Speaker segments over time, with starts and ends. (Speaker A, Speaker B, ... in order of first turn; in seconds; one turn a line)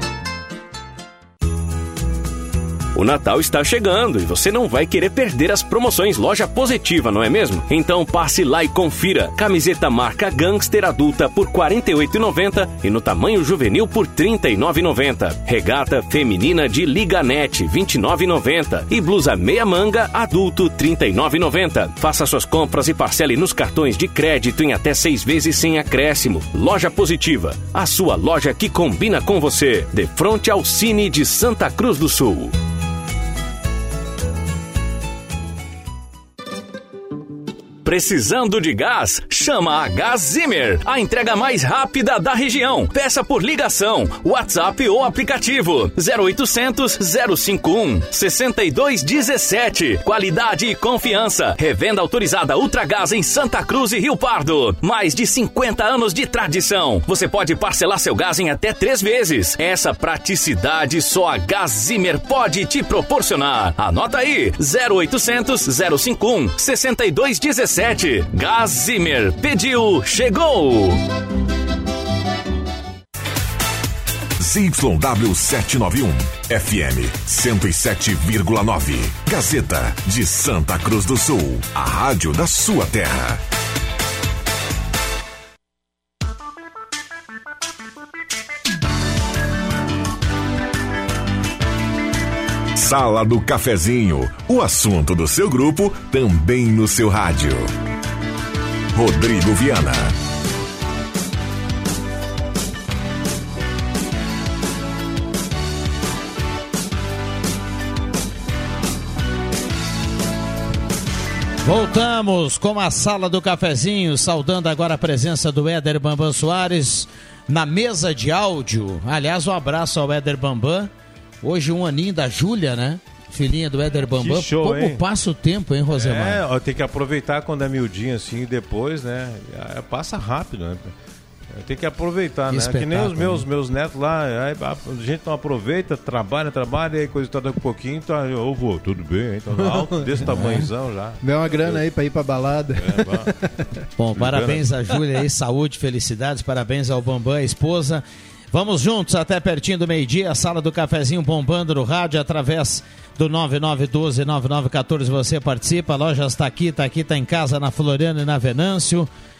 Speaker A: 2.9-32.5
Speaker A: 37.8-71.0
Speaker B: 74.4-83.4
Speaker B: 92.7-97.7
Speaker B: 98.9-100.1
Speaker C: 111.6-120.9
Speaker C: 121.4-126.4
Speaker D: 124.1-125.0
Speaker D: 125.9-130.9
Speaker D: 131.5-141.8
Speaker C: 132.5-133.4
Speaker E: 139.5-140.4
Speaker E: 141.2-143.6
Speaker D: 142.8-143.3
Speaker C: 144.0-159.1
Speaker D: 144.2-144.7